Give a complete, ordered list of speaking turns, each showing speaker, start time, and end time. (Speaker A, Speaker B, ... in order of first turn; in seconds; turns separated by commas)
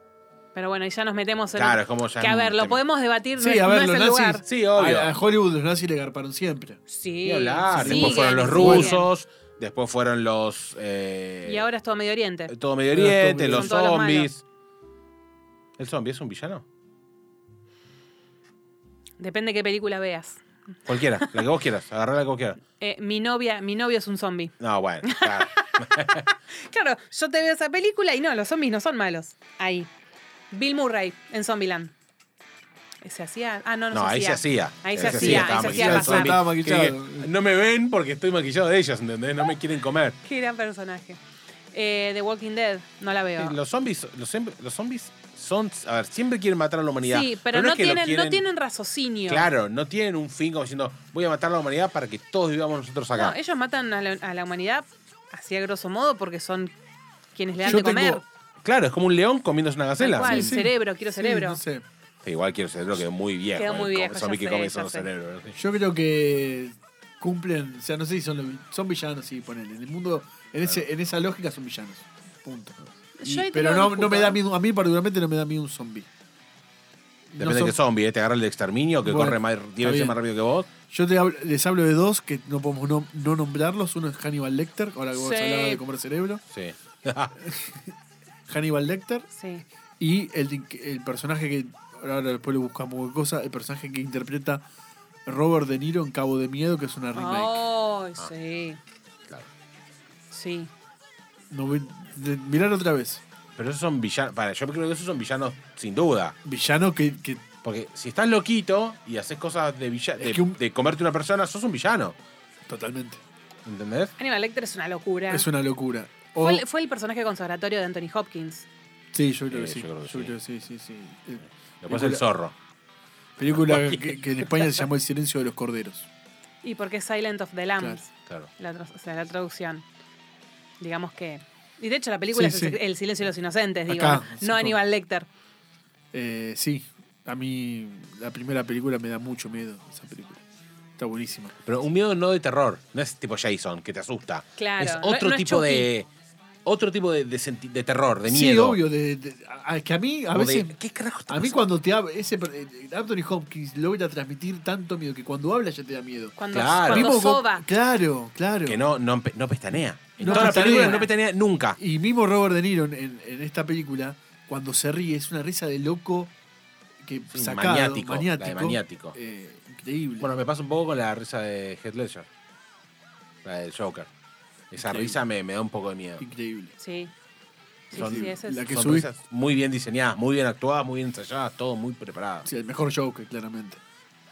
Speaker A: 0.6-4.4, Speaker B: 1.6-2.8, Speaker C: 3.4-6.8, Speaker B: 4.5-5.1, Speaker A: 6.9-9.1, Speaker B: 7.2-11.7, Speaker C: 7.7-9.0, Speaker A: 11.4-12.5, Speaker B: 12.5-14.4, Speaker C: 12.9-13.7, Speaker A: 13.5-14.3, Speaker B: 15.8-16.6, Speaker A: 19.2-21.4, Speaker B: 20.9-22.6, Speaker A: 22.8-29.9, Speaker B: 24.6-26.2, Speaker A: 30.5-31.9, Speaker A: 33.0-36.4, Speaker B: 33.9-40.2, Speaker C: 35.0-37.3, Speaker A: 40.2-41.2, Speaker A: 41.7-43.5, Speaker B: 43.4-48.4, Speaker A: 47.0-49.5, Speaker B: 49.3-53.4, Speaker A: 53.1-56.7, Speaker A: 57.4-58.2, Speaker C: 57.6-58.2, Speaker B: 58.6-60.5, Speaker A: 60.0-61.6, Speaker C: 60.2-61.8, Speaker B: 62.2-65.6, Speaker A: 63.6-65.1, Speaker C: 65.6-76.1, Speaker A: 73.2-74.4, Speaker C: 77.3-77.8, Speaker B: 77.4-80.7, Speaker C: 79.0-80.2, Speaker C: 80.9-86.4, Speaker A: 85.1-85.8, Speaker B: 86.5-87.3, Speaker C: 87.4-87.9, Speaker C: 88.5-89.3, Speaker A: 89.3-89.7, Speaker C: 90.0-94.6, Speaker C: 95.3-97.6, Speaker A: 97.1-98.8, Speaker A: 100.3-100.7, Speaker C: 101.5-103.2, Speaker B: 103.6-106.3, Speaker C: 106.5-107.4, Speaker B: 107.6-112.2, Speaker C: 110.2-110.6, Speaker C: 112.7-113.2, Speaker B: 113.7-114.1, Speaker A: 114.2-115.5, Speaker C: 115.3-116.7, Speaker A: 116.4-118.7, Speaker C: 119.1-122.2, Speaker B: 119.5-120.3, Speaker B: 121.8-122.5, Speaker C: 123.4-126.1, Speaker B: 123.5-124.7, Speaker A: 126.6-129.8, Speaker A: 130.8-135.3, Speaker C: 132.3-132.8, Speaker C: 133.9-134.8, Speaker C: 136.1-140.4, Speaker C: 141.0-141.6, Speaker B: 141.7-146.1, Speaker A: 144.6-145.9, Speaker B: 146.7-148.8, Speaker C: 148.3-150.8, Speaker B: 150.3-151.6, Speaker C: 151.3-158.8, Speaker A: 156.4-157.7, Speaker B: 156.5-157.2, Speaker B: 158.7-161.8, Speaker C: 160.2-161.1, Speaker A: 160.2-161.1, Speaker C: 161.8-166.3, Speaker C: 167.0-170.3, Speaker B: 167.3-169.2, Speaker B: 170.2-172.3, Speaker B: 173.4-174.1, Speaker B: 174.7-176.2, Speaker C: 174.8-175.2, Speaker C: 176.2-176.8, Speaker A: 176.8-177.1, Speaker A: 177.9-178.7, Speaker C: 177.9-179.1, Speaker B: 177.9-182.5, Speaker C: 182.4-183.8